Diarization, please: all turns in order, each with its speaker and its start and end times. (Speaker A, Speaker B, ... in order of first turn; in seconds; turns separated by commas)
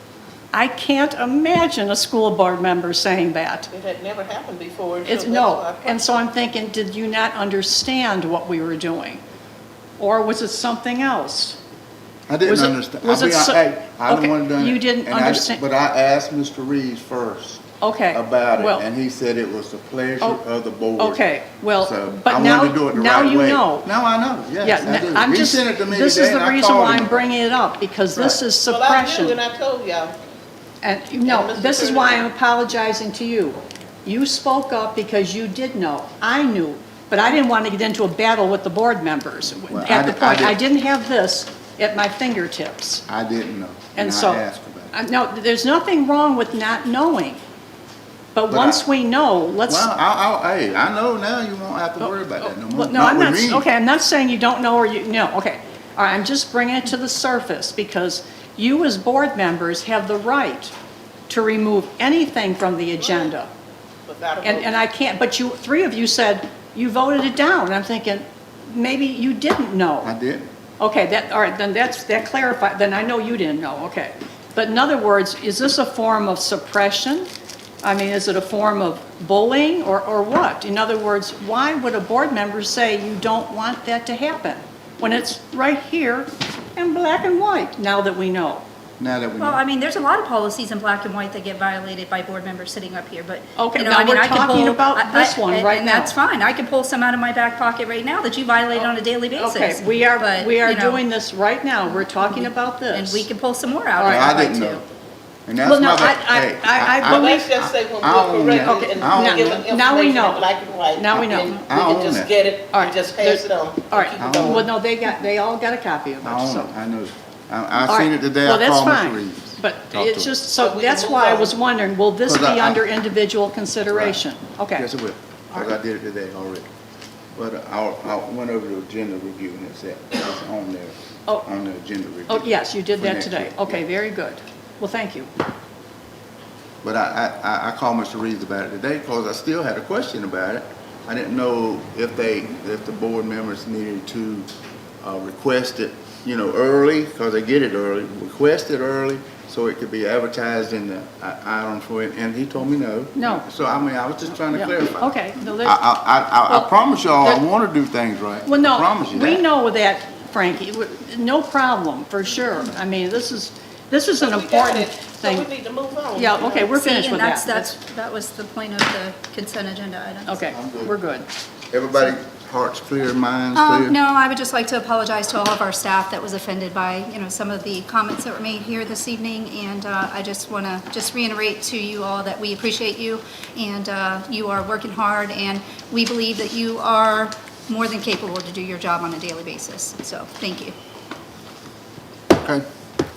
Speaker A: 0.5-3.7, Speaker B: 3.7-6.0, Speaker A: 5.1-9.2, Speaker A: 10.0-11.6, Speaker C: 12.3-21.2, Speaker A: 12.4-15.6, Speaker A: 17.8-18.8, Speaker A: 21.0-23.9, Speaker C: 21.8-27.2, Speaker A: 24.6-29.4, Speaker C: 28.1-28.4, Speaker B: 28.6-30.1, Speaker A: 30.8-43.0, Speaker B: 31.2-32.3, Speaker C: 39.7-40.6, Speaker C: 43.1-44.9, Speaker A: 44.0-47.4, Speaker A: 48.3-49.9, Speaker C: 48.5-48.8, Speaker C: 49.7-53.6, Speaker A: 52.0-60.7, Speaker A: 61.3-63.5, Speaker B: 63.0-63.4, Speaker B: 64.0-64.8, Speaker A: 64.4-70.1, Speaker C: 70.0-70.5, Speaker A: 70.8-77.3, Speaker A: 77.8-88.6, Speaker C: 89.0-89.6, Speaker D: 89.4-101.0, Speaker A: 93.6-96.1, Speaker A: 98.7-103.3, Speaker D: 101.9-104.8, Speaker A: 104.0-104.4, Speaker C: 104.0-104.8, Speaker C: 105.5-109.6, Speaker A: 105.6-107.4, Speaker B: 107.0-114.7, Speaker A: 108.6-110.4, Speaker A: 111.0-111.5, Speaker C: 111.1-112.3, Speaker A: 112.7-116.7, Speaker C: 114.2-114.7, Speaker C: 116.2-120.3, Speaker A: 117.8-124.9, Speaker B: 120.6-121.5, Speaker C: 122.2-122.8, Speaker C: 123.9-124.2, Speaker C: 124.8-126.7, Speaker C: 127.3-133.8, Speaker A: 132.3-135.3, Speaker C: 136.8-144.5, Speaker C: 145.0-159.4, Speaker A: 153.1-153.4, Speaker A: 154.3-155.8, Speaker A: 158.4-165.5, Speaker B: 164.2-166.7, Speaker A: 166.2-167.7, Speaker D: 166.5-170.4, Speaker A: 170.2-171.3, Speaker C: 170.5-170.9, Speaker C: 171.7-174.0, Speaker D: 173.6-190.7, Speaker C: 192.3-192.7